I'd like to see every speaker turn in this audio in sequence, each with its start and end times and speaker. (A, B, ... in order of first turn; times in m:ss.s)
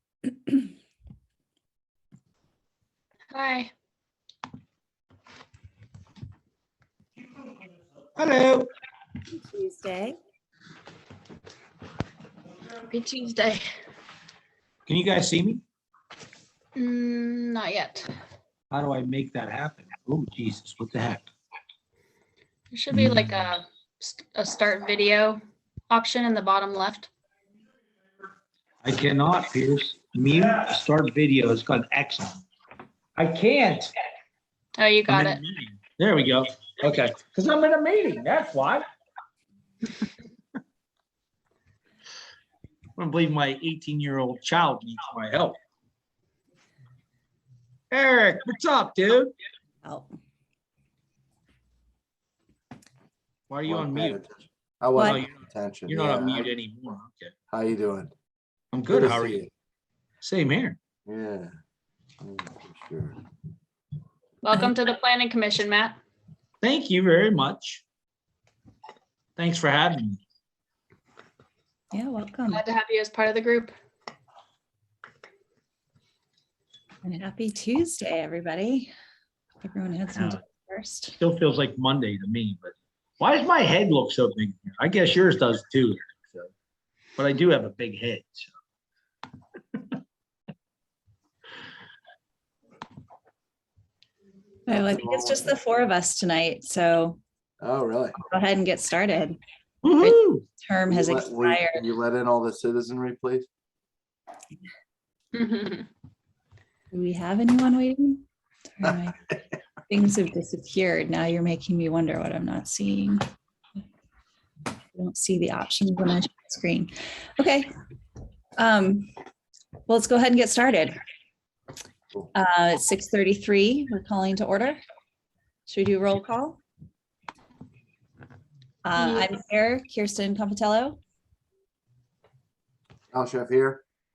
0:00.2-0:00.7 A
0:03.3-0:03.7 B
0:08.2-0:08.7 C
0:09.3-0:10.2 A
0:12.8-0:13.6 B
0:14.9-0:15.6 C
0:16.8-0:18.1 B
0:18.7-0:21.3 C
0:22.7-0:25.4 B
0:22.9-0:23.3 C
0:25.9-0:27.1 B
0:28.8-0:32.4 C
0:33.2-0:33.9 C
0:34.8-0:35.4 B
0:35.1-0:38.8 C
0:43.0-0:45.6 C
0:47.9-0:49.3 C
0:49.8-0:50.1 A
0:53.5-0:54.2 C
0:53.7-0:56.5 D
0:55.0-0:55.2 A
0:55.0-0:57.3 C
0:57.5-0:58.1 D
0:58.7-0:59.4 C
0:58.9-0:59.5 D
1:00.2-1:00.8 C
1:01.1-1:01.5 D
1:02.2-1:03.2 D
1:04.4-1:06.0 B
1:06.6-1:07.8 C
1:09.4-1:10.2 C
1:11.9-1:12.6 A
1:12.5-1:13.7 B
1:17.0-1:18.9 A
1:19.6-1:21.2 A
1:20.1-1:20.4 C
1:21.2-1:26.5 C
1:27.2-1:28.5 C
1:34.7-1:37.2 A
1:34.7-1:35.5 D
1:37.6-1:38.2 D
1:38.2-1:39.4 A
1:39.8-1:40.4 C
1:39.9-1:41.8 A
1:40.9-1:43.5 D
1:45.3-1:45.9 B
1:46.9-1:48.2 A
1:48.8-1:49.3 A
1:49.9-1:53.2 A
1:54.9-1:57.7 A
1:58.6-1:59.1 A
1:59.9-2:01.0 A
2:02.3-2:04.8 A
2:05.7-2:06.6 A
2:08.8-2:11.0 A
2:13.1-2:13.8 D